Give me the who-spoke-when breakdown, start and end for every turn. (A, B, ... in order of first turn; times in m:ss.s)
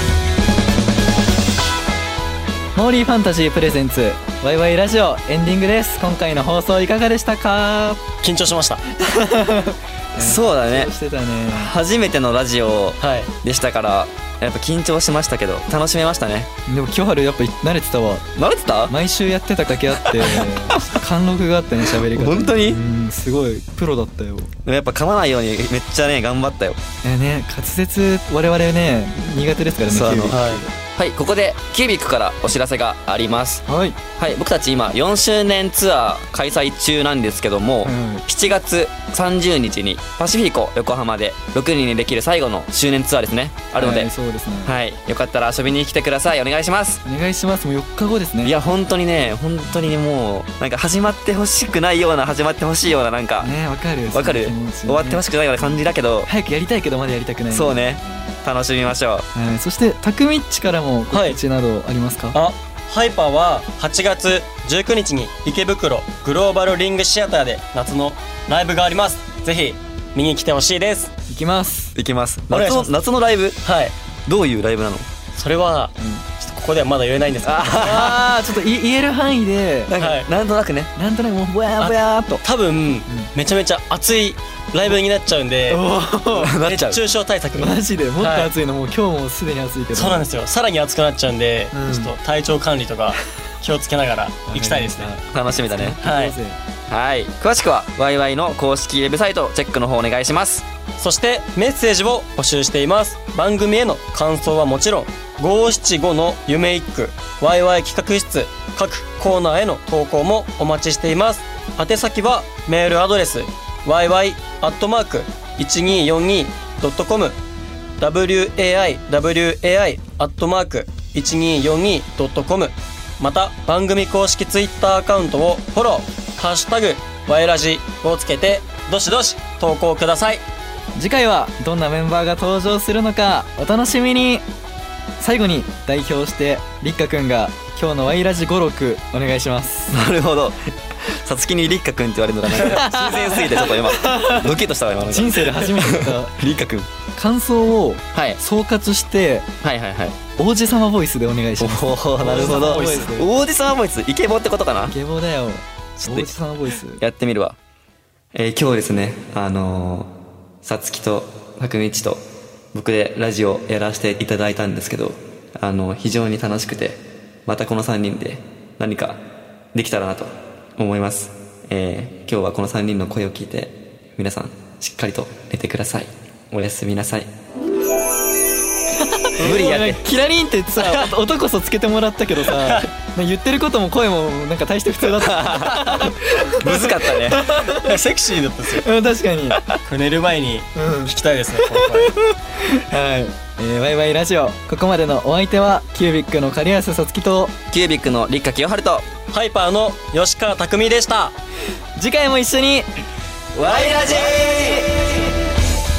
0:02.8-0:08.1 A
0:08.2-0:08.8 B
0:09.0-0:11.7 A
0:10.2-0:10.9 C
0:11.5-0:16.5 C
0:13.0-0:13.3 B
0:16.7-0:18.3 A
0:18.4-0:18.9 C
0:18.9-0:24.5 A
0:20.1-0:20.9 C
0:21.9-0:22.8 C
0:24.6-0:26.8 C
0:27.0-0:30.7 A
0:29.9-0:30.4 C
0:30.3-0:30.6 B
0:31.0-0:33.6 C
0:33.7-0:34.0 A
0:34.2-0:44.1 C
0:37.8-0:38.3 A
0:43.8-0:44.8 A
0:44.6-0:47.0 C
0:47.0-0:48.6 A
0:48.4-0:53.5 C
0:53.4-0:55.2 A
0:54.1-0:56.3 C
0:56.2-0:58.3 A
0:57.5-0:59.3 C
0:59.3-1:02.4 A
1:01.1-1:01.4 B
1:02.3-1:11.1 B
1:11.3-1:12.0 A
1:12.0-1:13.6 C
1:12.5-1:12.9 B
1:13.6-1:13.9 B
1:14.3-1:15.1 C
1:15.4-1:18.2 B
1:16.0-1:16.2 A
1:17.4-1:18.2 C
1:17.8-1:19.9 A
1:19.9-1:20.9 C
1:20.0-1:20.3 B
1:21.0-1:22.4 A
1:21.8-1:25.8 B
1:25.7-1:26.6 A
1:26.3-1:27.0 C
1:26.6-1:28.5 B
1:27.6-1:30.2 A
1:29.9-1:35.1 B
1:31.7-1:32.1 A
1:34.5-1:36.6 A
1:35.3-1:36.0 C
1:36.0-1:36.4 B
1:36.9-1:40.6 C
1:41.0-1:57.4 B
1:58.0-2:10.4 B
2:11.0-2:14.4 A
2:15.2-2:20.0 A
2:19.9-2:26.9 C
2:22.6-2:26.4 A
2:22.6-2:23.7 B
2:27.2-2:29.5 A
2:28.1-2:28.4 C
2:29.6-2:30.2 C
2:30.4-2:33.3 A
2:31.6-2:35.0 C
2:32.2-2:33.1 B
2:34.8-2:37.0 A
2:36.0-2:36.3 C
2:37.0-2:37.6 C
2:38.3-2:40.1 C
2:40.6-2:42.2 C
2:42.7-2:49.2 C
2:49.7-2:57.3 C
2:59.0-3:08.0 A
2:59.4-2:59.9 B
2:59.4-3:00.0 C
3:00.8-3:01.1 B
3:02.4-3:02.9 B
3:05.2-3:07.5 C
3:07.7-3:08.9 B
3:08.7-3:09.6 A
3:09.8-3:12.2 B
3:10.8-3:17.6 A
3:17.7-3:19.1 C
3:19.3-3:21.4 B
3:22.0-3:22.9 A
3:23.6-3:25.3 C